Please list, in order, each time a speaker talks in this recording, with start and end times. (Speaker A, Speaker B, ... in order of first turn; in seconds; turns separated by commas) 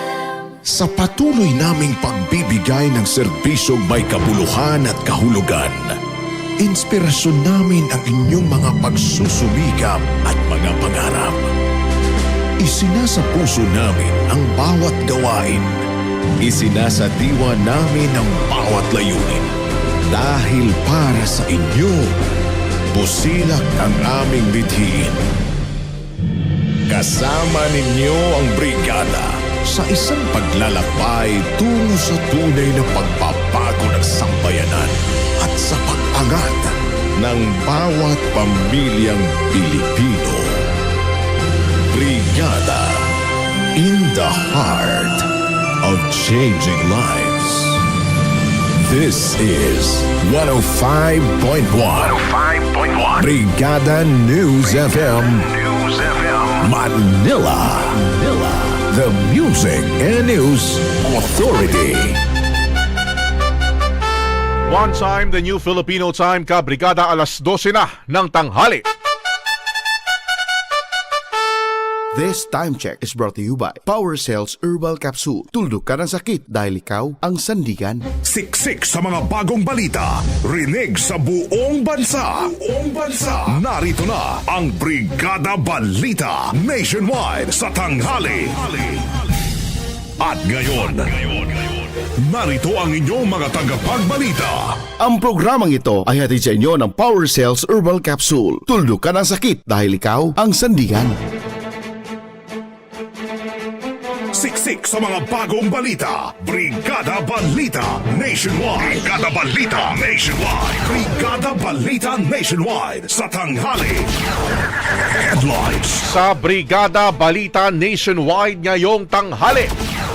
Speaker A: 0.7-6.0, Speaker A: 6.6-11.5, Speaker A: 12.6-15.8, Speaker A: 16.4-19.5, Speaker A: 20.1-22.1, Speaker A: 22.9-25.2, Speaker A: 26.9-40.6, Speaker A: 41.9-43.1, Speaker A: 43.8-45.3, Speaker A: 45.8-47.8, Speaker A: 48.8-62.2, Speaker B: 64.7-68.8, Speaker C: 72.1-78.0, Speaker D: 78.2-89.1, Speaker D: 90.2-91.6, Speaker D: 92.2-94.8, Speaker C: 95.0-101.2, Speaker D: 104.3-114.1, Speaker D: 115.1-116.0, Speaker B: 116.1-119.7